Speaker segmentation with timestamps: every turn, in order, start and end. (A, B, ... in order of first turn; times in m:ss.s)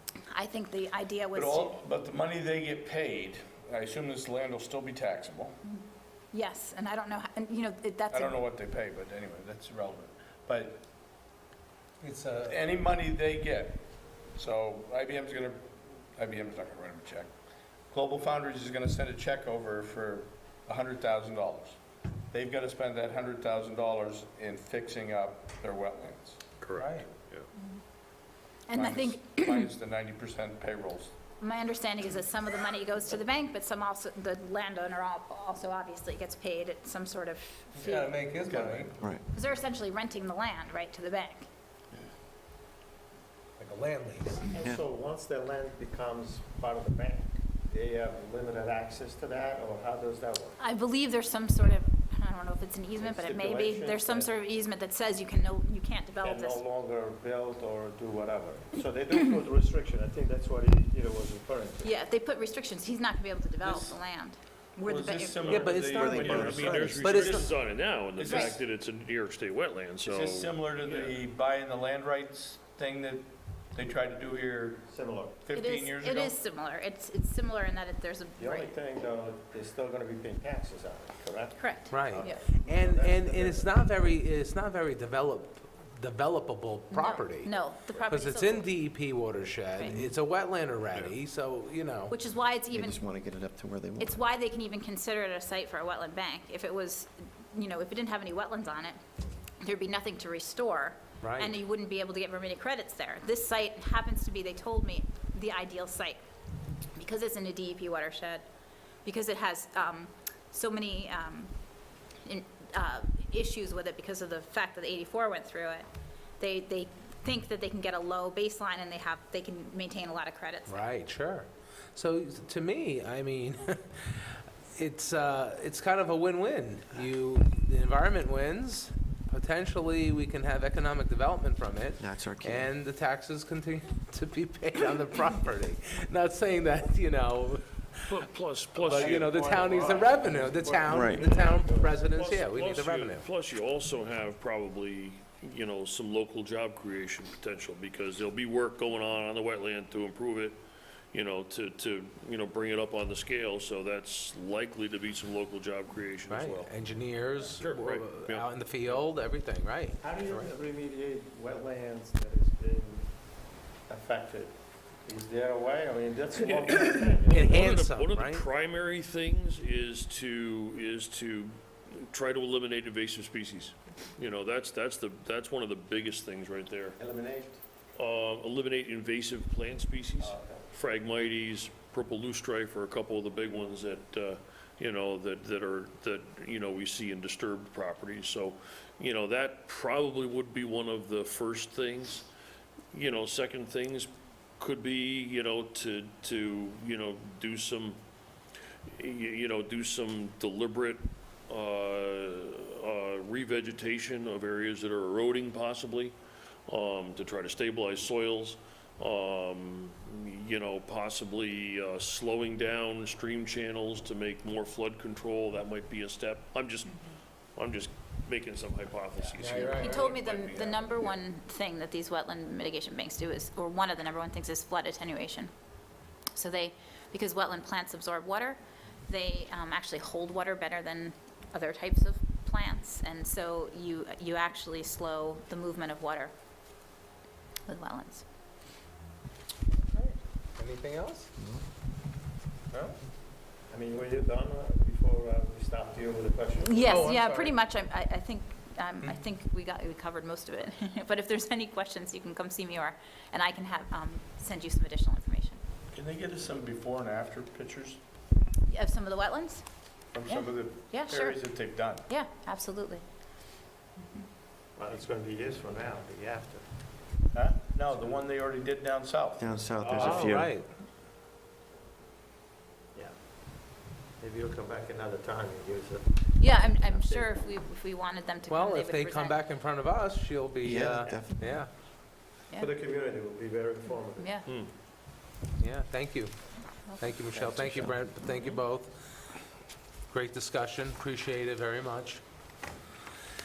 0:00.3-0:01.8 A
0:01.3-0:05.6 B
0:05.6-0:08.4 A
0:08.1-0:10.8 B
0:12.0-0:12.6 C
0:12.4-0:13.8 B
0:14.3-0:17.3 B
0:17.9-0:21.8 B
0:22.3-0:26.4 B
0:26.6-0:27.5 D
0:26.8-0:27.0 C
0:28.7-0:29.7 A
0:28.7-0:31.1 B
0:31.4-0:38.1 A
0:37.8-0:39.0 C
0:38.5-0:38.8 E
0:39.0-0:39.2 F
0:39.3-0:41.4 A
0:43.6-0:44.5 C
0:44.5-0:50.6 E
0:50.6-0:56.6 A
0:53.0-0:54.4 E
0:56.2-1:01.9 E
1:01.8-1:06.4 A
1:03.6-1:04.0 B
1:04.8-1:07.4 B
1:05.5-1:06.0 C
1:05.8-1:07.2 F
1:06.3-1:10.6 D
1:07.0-1:07.5 C
1:08.2-1:08.6 B
1:10.0-1:14.9 B
1:10.8-1:11.1 E
1:14.9-1:15.4 E
1:15.4-1:16.4 B
1:15.5-1:18.8 A
1:18.4-1:23.7 E
1:21.6-1:22.4 A
1:21.9-1:32.2 C
1:26.9-1:28.7 A
1:29.7-1:30.0 A
1:32.1-1:33.0 A
1:32.7-1:34.2 F
1:34.0-1:39.0 A
1:39.6-1:46.2 A
1:41.2-1:41.6 C
1:46.9-1:48.4 A
1:49.0-1:51.5 A
1:52.2-1:55.9 A
1:56.4-2:00.8 A
2:00.7-2:18.2 C
2:12.0-2:12.7 F
2:18.1-2:19.3 D
2:18.8-2:22.0 E
2:18.8-2:23.2 C
2:20.8-2:21.4 F
2:22.1-2:30.6 D
2:31.1-2:36.7 D
2:36.3-2:40.5 C
2:37.4-2:38.5 D
2:40.0-2:43.2 E
2:43.8-2:47.6 E
2:46.7-2:48.4 C
2:47.2-2:57.0 D
2:57.0-2:57.6 E
2:58.0-3:12.3 D
3:00.2-3:00.6 E
3:12.9-3:18.0 D
3:18.9-3:37.0 D
3:37.6-3:40.0 D
3:39.4-3:40.1 C
3:39.4-3:41.1 B
3:39.6-3:45.5 A
3:46.3-3:56.3 A
3:57.7-3:58.2 A
3:59.9-4:01.3 C
4:03.7-4:07.1 E
4:06.6-4:15.6 A
4:06.8-4:07.6 C
4:15.9-4:18.0 B
4:18.7-4:19.6 A
4:20.1-4:22.0 B
4:20.2-4:23.0 A
4:24.8-4:26.7 E
4:27.3-4:29.5 B
4:29.4-4:30.6 F
4:29.8-4:30.4 E
4:29.9-4:30.7 C
4:32.9-4:37.3 E
4:36.4-4:39.4 A
4:38.5-4:41.7 C
4:40.6-4:41.6 F
4:42.6-4:44.3 E
4:44.2-4:44.5 A
4:44.4-4:44.7 D
4:45.6-4:49.0 C
4:47.3-4:48.0 F
4:50.1-4:52.2 C